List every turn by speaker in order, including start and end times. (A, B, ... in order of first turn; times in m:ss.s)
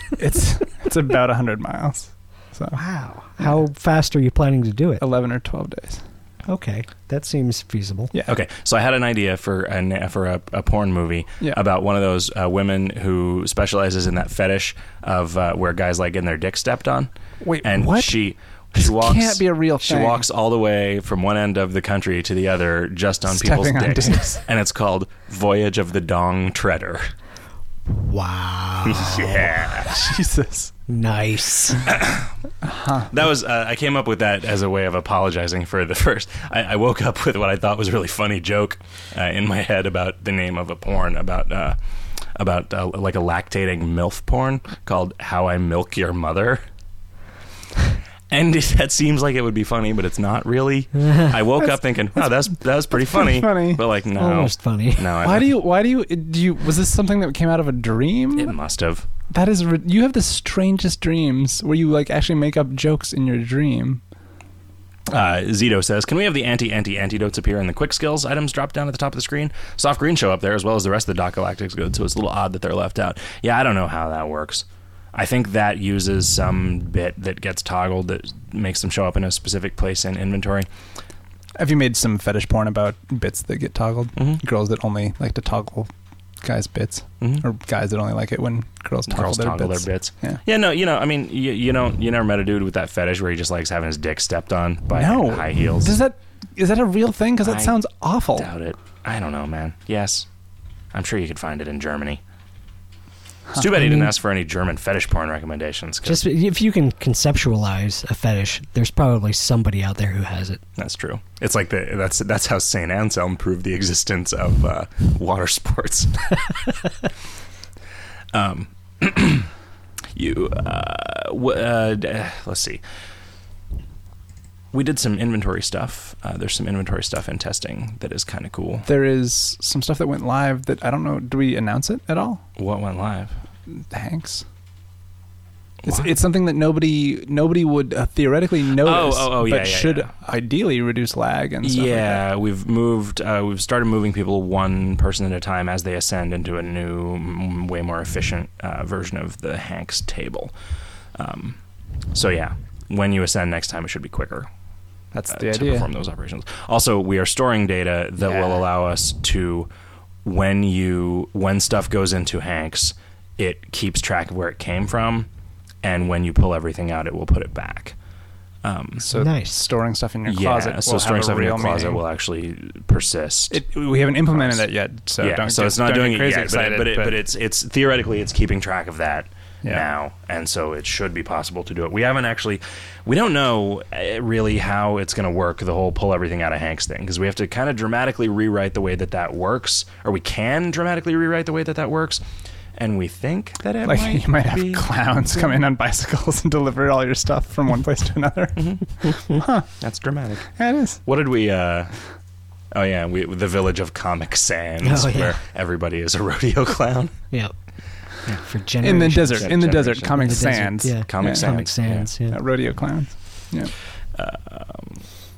0:00.2-0:02.8 A
0:02.7-0:05.0 B
0:05.0-0:06.0 A
0:06.5-0:08.1 B
0:08.2-0:27.1 C
0:17.4-0:18.2 A
0:18.7-0:20.2 A
0:23.3-0:24.4 A
0:27.9-0:29.5 B
0:28.8-0:30.1 C
0:29.9-0:30.7 A
0:30.9-0:31.8 B
0:31.8-0:32.3 C
0:32.6-0:33.1 A
0:33.1-0:41.8 C
0:42.3-0:46.6 C
0:48.3-0:55.5 C
0:51.6-0:53.8 A
0:54.1-0:55.3 B
0:55.2-0:58.6 A
0:58.4-0:59.1 C
0:59.3-1:04.0 A
1:05.1-1:20.7 C
1:21.6-1:30.4 A
1:24.2-1:24.4 C
1:29.1-1:36.0 C
1:34.9-1:38.5 A
1:37.4-1:37.8 C
1:38.3-1:40.3 C
1:40.9-1:42.2 C
1:43.5-1:44.0 A
1:43.5-1:46.2 C
1:46.0-1:50.6 B
1:50.8-1:56.4 C
1:58.3-1:59.5 C
2:00.1-2:02.8 C
2:04.7-2:08.9 C
2:08.8-2:12.4 A
2:12.6-2:13.3 C
2:13.7-2:14.4 A
2:15.8-2:22.2 A
2:18.8-2:20.1 C
2:21.6-2:30.5 C
2:31.1-2:31.6 C
2:32.1-2:34.5 C
2:35.1-2:39.7 C
2:35.3-2:35.9 A
2:38.3-2:38.6 A
2:40.2-2:45.3 C
2:45.8-2:48.0 C
2:48.6-2:49.0 C
2:49.0-2:52.0 A
2:49.1-2:49.6 B
2:50.2-2:53.6 C
2:53.5-2:57.2 A
2:54.3-2:54.6 C
2:55.2-3:12.2 C
3:12.8-3:14.9 C
3:13.8-3:19.7 A
3:18.6-3:19.2 C
3:19.8-3:22.0 C
3:20.6-3:21.0 A
3:22.7-3:27.2 C
3:24.8-3:25.4 B
3:28.2-3:32.4 B
3:28.8-3:31.6 A
3:29.3-3:32.1 C
3:32.3-3:33.7 A
3:34.1-3:35.0 C